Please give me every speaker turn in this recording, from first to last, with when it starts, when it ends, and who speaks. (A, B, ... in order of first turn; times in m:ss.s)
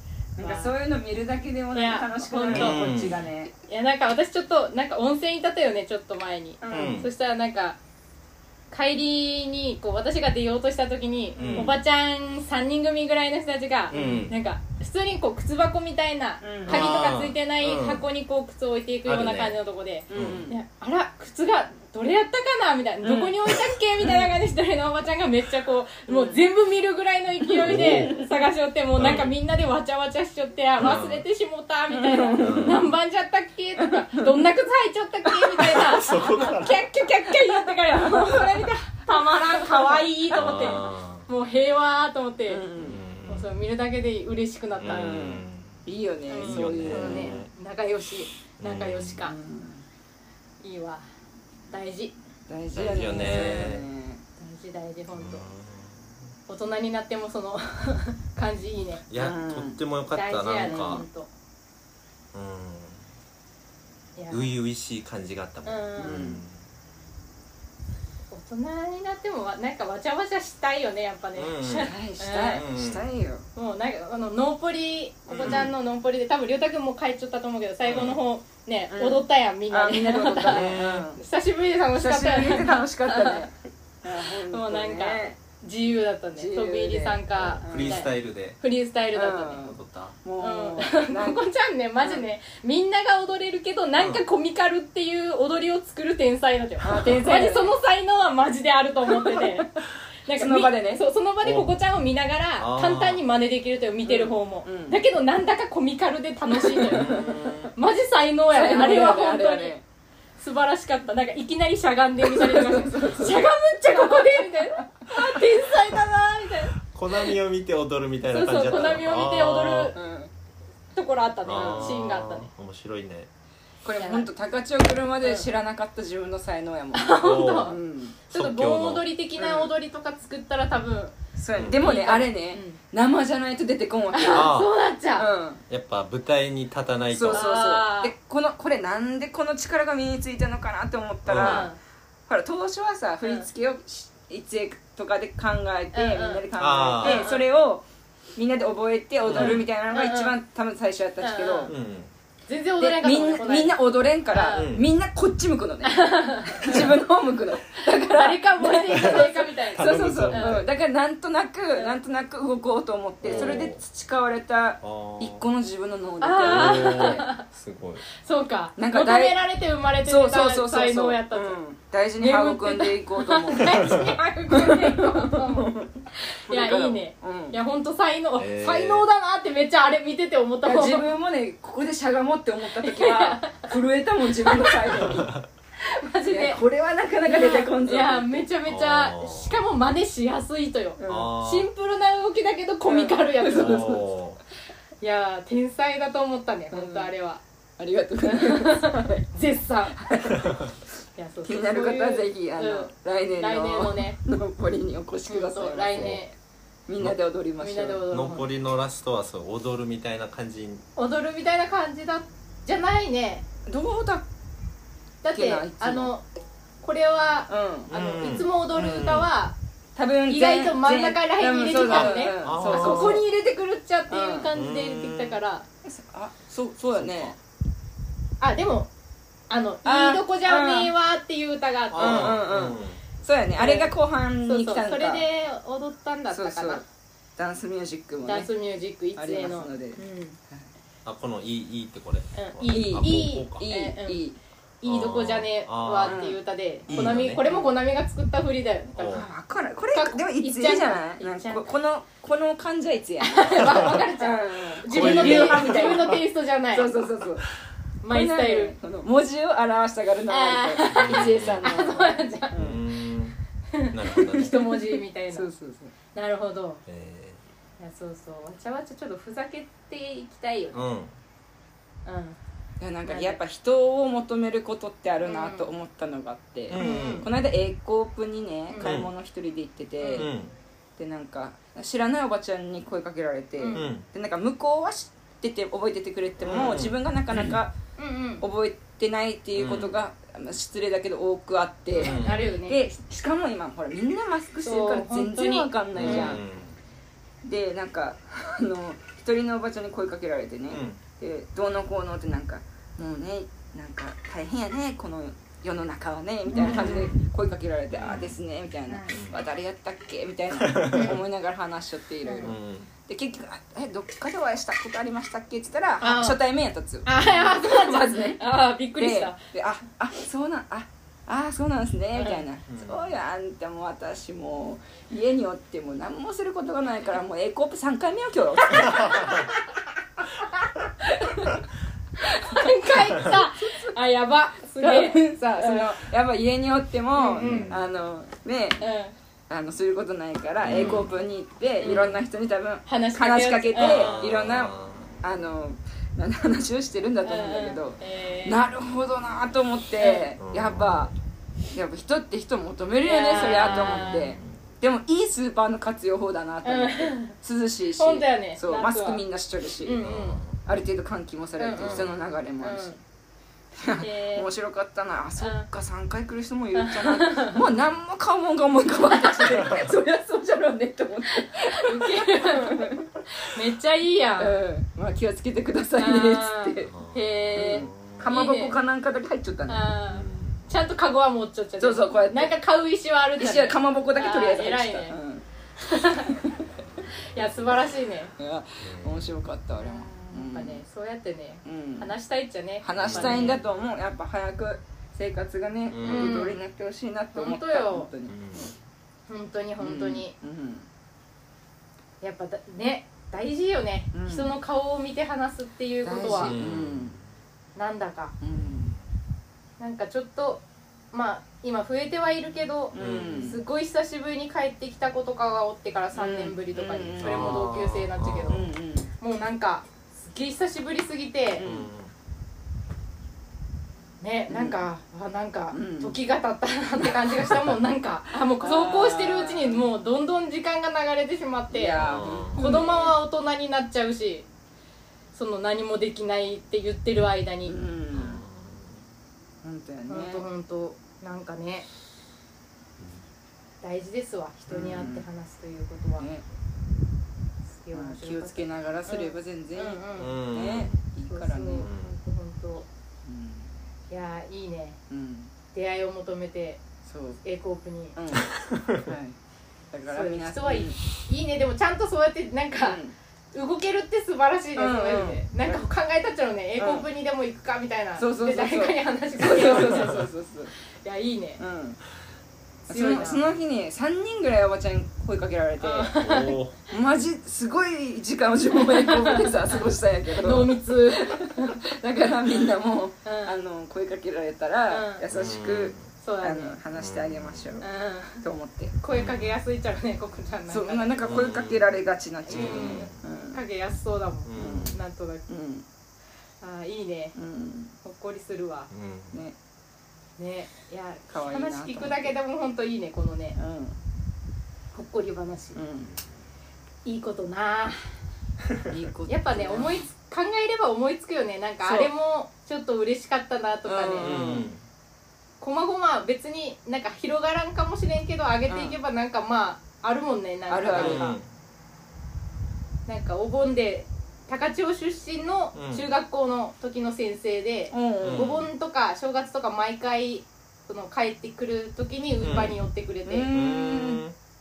0:00.4-0:03.5 A
0:00.4-0:00.7 B
0:01.7-0:02.9 B
0:02.5-0:03.2 C
0:03.7-0:07.8 B
0:06.6-0:07.0 A
0:06.7-0:07.1 C
0:08.7-0:42.6 B
0:11.4-0:11.8 A
0:11.4-0:11.8 C
0:13.9-0:14.4 C
0:13.9-0:14.3 A
0:16.4-0:17.0 A
0:16.7-0:18.0 C
0:19.1-0:19.6 C
0:20.1-0:20.6 A
0:20.1-0:20.5 C
0:23.0-0:23.4 A
0:24.0-0:24.3 A
0:26.1-0:26.4 A
0:27.4-0:28.3 A
0:27.6-0:28.2 C
0:29.0-0:29.3 C
0:30.8-0:31.2 C
0:31.9-0:32.8 A
0:32.4-0:32.9 C
0:33.8-0:34.5 A
0:35.3-0:40.8 A
0:35.7-0:36.8 C
0:40.3-0:41.3 C
0:42.5-0:43.0 A
0:42.8-0:43.5 C
0:43.3-0:45.2 B
0:44.8-0:47.5 C
0:44.9-0:47.4 A
0:46.3-0:49.3 B
0:48.6-0:49.3 C
0:49.2-0:49.9 A
0:50.6-0:51.0 B
0:51.7-0:52.1 B
0:52.5-0:54.2 A
0:52.7-0:53.9 C
0:53.2-0:53.7 B
0:54.4-0:55.4 B
0:55.1-0:56.0 C
0:56.5-0:59.0 B
0:59.1-1:01.1 C
0:59.2-0:59.8 A
1:00.1-1:01.3 B
1:00.6-1:01.1 A
1:02.3-1:03.0 C
1:04.2-1:04.5 B
1:04.3-1:06.6 C
1:05.6-1:06.2 B
1:06.0-1:06.4 A
1:08.3-1:12.6 B
1:11.4-1:11.9 C
1:11.8-1:13.5 A
1:12.5-1:13.0 C
1:13.6-1:23.5 B
1:15.3-1:15.7 A
1:15.4-1:15.7 C
1:17.9-1:18.2 C
1:18.9-1:21.2 A
1:20.5-1:20.8 C
1:22.0-1:23.5 A
1:24.0-1:25.4 A
1:24.3-1:29.7 B
1:26.4-1:28.1 A
1:27.4-1:28.6 C
1:29.1-1:31.4 A
1:29.6-1:30.2 C
1:30.4-1:49.8 B
1:34.0-1:34.2 C
1:36.8-1:37.7 A
1:39.1-1:39.6 A
1:40.4-1:41.0 A
1:41.4-1:41.7 C
1:42.6-1:43.2 C
1:44.0-1:45.0 A
1:46.5-1:47.7 A
1:46.9-1:47.7 C
1:48.5-1:49.8 A
1:50.4-1:56.8 B
1:52.3-1:53.4 A
1:54.0-1:54.2 A
1:56.9-2:00.0 C
1:58.3-2:00.0 B
1:59.9-2:00.3 A
2:01.0-2:02.5 B
2:01.4-2:03.3 C
2:01.5-2:01.9 A
2:03.8-2:08.2 A
2:04.0-2:04.3 B
2:05.2-2:05.5 B
2:06.9-2:07.8 B
2:07.2-2:07.8 C
2:08.3-2:09.1 C
2:08.3-2:11.2 B
2:09.4-2:09.7 A
2:11.4-2:14.5 A
2:11.6-2:11.8 C
2:11.7-2:12.8 B
2:14.1-2:15.3 B
2:14.3-2:14.7 C
2:15.2-2:15.6 A
2:15.7-2:17.5 C
2:17.1-2:21.7 A
2:17.3-2:18.1 B
2:21.3-2:21.7 C
2:21.4-2:21.8 B
2:22.3-2:31.7 A
2:23.2-2:23.5 B
2:25.9-2:26.4 B
2:26.6-2:27.3 C
2:27.0-2:27.5 B
2:29.3-2:29.7 C
2:29.3-2:30.4 B
2:31.2-2:31.7 B
2:31.7-2:32.1 C
2:32.5-2:34.7 B
2:32.8-2:47.3 A
2:34.5-2:34.9 C
2:35.8-2:37.0 B
2:37.9-2:40.6 B
2:38.9-2:40.6 C
2:43.2-2:43.8 C
2:43.2-2:43.6 B
2:44.8-2:45.4 C
2:46.2-2:47.4 B
2:46.4-2:48.0 C
2:48.2-2:51.6 B
2:48.8-2:49.4 A
2:50.1-2:57.6 A
2:52.2-3:01.1 B
2:53.8-2:54.1 C
2:58.4-2:59.1 C
3:00.6-3:05.3 A
3:02.8-3:03.7 B
3:04.4-3:05.1 B
3:05.1-3:05.4 C
3:05.8-3:06.6 B
3:06.3-3:08.4 A
3:07.2-3:14.0 B
3:08.7-3:09.6 C
3:11.0-3:11.3 A
3:11.1-3:11.7 C
3:12.8-3:14.0 A
3:13.5-3:14.4 C
3:15.0-3:17.4 B
3:16.7-3:17.1 A
3:17.8-3:19.2 A
3:18.3-3:20.3 B
3:20.0-3:20.6 A
3:21.2-3:24.2 B
3:21.4-3:26.2 A
3:25.3-3:26.4 B
3:26.9-3:28.0 A
3:27.6-3:28.5 B
3:28.1-3:30.8 C
3:31.0-3:33.5 B
3:33.7-3:34.3 A
3:35.2-3:36.2 B
3:35.3-3:36.1 A
3:36.8-3:39.6 B
3:37.5-3:37.9 A
3:37.9-3:39.3 C
3:40.0-3:43.2 A
3:40.3-3:45.7 B
3:41.9-3:43.3 C
3:44.1-3:44.5 A
3:44.5-3:45.4 C
3:45.8-3:47.4 A
3:47.0-3:47.3 C
3:48.4-3:48.9 B
3:49.5-3:52.4 B
3:49.8-3:50.9 A
3:51.9-3:53.0 C
3:52.0-3:55.3 A
3:53.6-3:53.9 B
3:54.4-3:56.8 B
3:56.3-3:56.8 A
3:57.4-3:58.5 A
3:58.2-4:00.4 B
3:59.2-4:00.7 A
4:01.0-4:03.6 C
4:02.4-4:04.2 B
4:02.7-4:04.4 A
4:04.8-4:09.3 B
4:04.8-4:06.2 C
4:06.0-4:07.7 A
4:06.9-4:07.4 C
4:09.0-4:09.3 C
4:09.0-4:16.2 A
4:09.9-4:11.7 B
4:13.2-4:17.0 B
4:13.7-4:14.0 C
4:14.8-4:16.2 C
4:16.7-4:17.5 A
4:18.0-4:18.7 B
4:18.1-4:22.8 A
4:20.3-4:22.6 B
4:20.9-4:21.7 C
4:22.6-4:23.4 C
4:23.7-4:25.5 B
4:23.9-4:24.6 C
4:24.2-4:25.9 A
4:26.1-4:26.8 B
4:26.9-4:27.4 C
4:27.8-4:30.9 B
4:30.7-4:31.2 C
4:32.0-4:32.4 B
4:32.8-4:40.3 A
4:33.0-4:33.4 B
4:35.2-4:35.7 B
4:36.7-4:37.3 C
4:36.8-4:37.3 B
4:38.7-4:39.0 B
4:38.8-4:39.1 C
4:40.0-4:40.3 B
4:40.2-4:40.5 C
4:41.0-4:47.7 A
4:43.6-4:43.9 B
4:43.7-4:44.0 C
4:46.4-4:47.0 C
4:48.0-4:48.4 B
4:48.4-4:56.4 A
4:49.6-4:50.0 C
4:51.9-4:52.8 B
4:52.0-4:52.5 C
4:54.6-4:56.4 B
4:56.0-4:56.8 C
4:57.4-5:18.4 A
5:00.7-5:01.0 C
5:06.5-5:07.1 B
5:07.9-5:08.4 C
5:08.9-5:09.2 B
5:09.1-5:09.4 C
5:10.5-5:11.2 C
5:12.2-5:12.5 B
5:12.4-5:12.9 C
5:16.0-5:16.4 B
5:17.0-5:19.4 B
5:19.0-5:29.4 A
5:22.2-5:22.4 B
5:22.7-5:23.1 C
5:28.9-5:29.2 C
5:31.2-5:31.5 A
5:32.2-5:34.0 A
5:32.4-5:36.0 B
5:34.8-5:38.8 A
5:37.2-5:37.8 B
5:37.4-5:37.8 C
5:38.8-5:39.1 B
5:39.5-5:51.1 A
5:40.6-5:41.2 C
5:40.7-5:41.0 B
5:41.8-5:42.1 B
5:41.8-5:42.2 C
5:42.9-5:44.2 B
5:43.8-5:45.1 C
5:47.2-5:48.6 B
5:50.0-5:50.3 B
5:50.4-5:51.1 C
5:51.7-6:00.1 A
5:53.0-5:54.3 B
5:53.7-5:54.6 C
5:56.6-5:57.3 B
5:58.0-5:59.2 B
5:59.8-6:00.4 B
6:00.0-6:00.6 C
6:00.6-6:03.0 A
6:01.6-6:03.0 B
6:01.8-6:02.1 C
6:03.8-6:13.2 A
6:04.0-6:04.5 B
6:05.4-6:05.7 B
6:06.8-6:07.6 B
6:09.2-6:09.6 B
6:09.6-6:10.0 C
6:11.5-6:14.6 B
6:14.4-6:16.9 A
6:16.0-6:18.8 B
6:16.9-6:18.3 C
6:17.6-6:19.9 A
6:19.7-6:25.2 B
6:20.1-6:20.7 C
6:21.8-6:22.6 A
6:23.4-6:25.4 A
6:25.8-6:26.4 B
6:26.3-6:26.6 A
6:27.3-6:28.3 B
6:28.4-6:30.8 A
6:28.8-6:29.3 C
6:29.8-6:33.6 B
6:31.6-6:32.1 A
6:32.8-6:38.4 A
6:33.0-6:33.6 C
6:35.9-6:36.5 C
6:36.0-6:36.6 B
6:37.3-6:38.1 B
6:38.3-6:38.8 C
6:39.3-6:40.3 B
6:39.8-6:40.9 A
6:42.2-6:46.6 B
6:44.1-6:44.5 A
6:46.0-6:47.2 A
6:46.4-6:47.3 C
6:47.8-6:48.3 B
6:48.4-6:48.9 A
6:48.6-6:49.0 C
6:49.8-6:58.7 B
6:52.9-6:53.6 A
6:52.9-6:53.6 C
6:56.2-6:57.7 A
6:57.2-6:58.7 C
6:58.5-6:59.1 A
6:59.2-7:01.6 B
7:01.6-7:01.9 A
7:01.6-7:02.1 C
7:04.2-7:14.5 B
7:04.5-7:04.8 A
7:05.7-7:06.2 A
7:08.6-7:09.8 A
7:11.7-7:13.2 A
7:12.0-7:12.8 C
7:15.3-7:17.8 B
7:17.7-7:18.4 A
7:18.1-7:19.0 C
7:19.6-7:20.4 A
7:20.1-7:21.9 B
7:23.0-7:23.2 C
7:23.8-7:26.3 B
7:24.7-7:25.3 A
7:24.7-7:25.0 C
7:26.2-7:26.4 A
7:27.7-7:30.4 B
7:27.9-7:31.9 A
7:30.2-7:31.0 C
7:31.3-7:32.9 B
7:31.8-7:32.2 C
7:33.3-7:33.7 A
7:34.1-7:35.0 B
7:35.1-7:35.5 A
7:35.7-7:36.8 B
7:37.1-7:37.4 A
7:37.4-7:38.2 B
7:38.2-7:39.4 A
7:38.6-7:39.1 C
7:39.9-7:41.0 A
7:40.1-7:43.0 B
7:42.8-7:43.2 A
7:43.5-7:50.3 B
7:44.8-7:45.8 A
7:46.8-7:47.1 A
7:48.2-7:50.7 A
7:51.0-7:51.6 B
7:51.6-7:52.0 A
7:52.9-7:56.1 A
7:52.9-7:53.4 B
7:55.8-7:56.6 B
7:56.2-7:56.8 C
7:56.9-8:07.9 A
7:58.8-8:01.8 B
8:03.2-8:03.5 B
8:04.9-8:05.2 B
8:05.3-8:06.1 C
8:06.2-8:06.8 B
8:07.0-8:07.8 C
8:07.8-8:08.4 B
8:08.4-8:09.0 A
8:09.0-8:11.2 B
8:09.1-8:09.6 C
8:10.7-8:13.6 A
8:11.2-8:11.9 C
8:12.5-8:15.4 B
8:12.5-8:13.2 C
8:14.5-8:15.0 C
8:14.6-8:15.9 A
8:16.6-8:17.4 B
8:17.4-8:17.9 A
8:18.0-8:18.9 B
8:18.9-8:19.4 C
8:20.4-8:23.6 B
8:21.3-8:22.4 A
8:23.6-8:24.0 A
8:24.9-8:25.8 B
8:25.8-8:26.2 A
8:27.0-8:28.1 B
8:28.9-8:30.1 A
8:29.3-8:34.4 B
8:31.8-8:32.1 A
8:33.8-8:34.7 A
8:34.2-8:34.8 C
8:35.6-8:41.3 B
8:38.7-8:39.0 A
8:40.7-8:41.4 A
8:40.9-8:41.5 C
8:43.1-8:53.6 B
8:45.8-8:46.1 C
8:47.9-8:48.5 A
8:48.2-8:48.7 C
8:52.4-8:52.8 C
8:53.3-8:54.2 A
8:53.5-8:54.4 C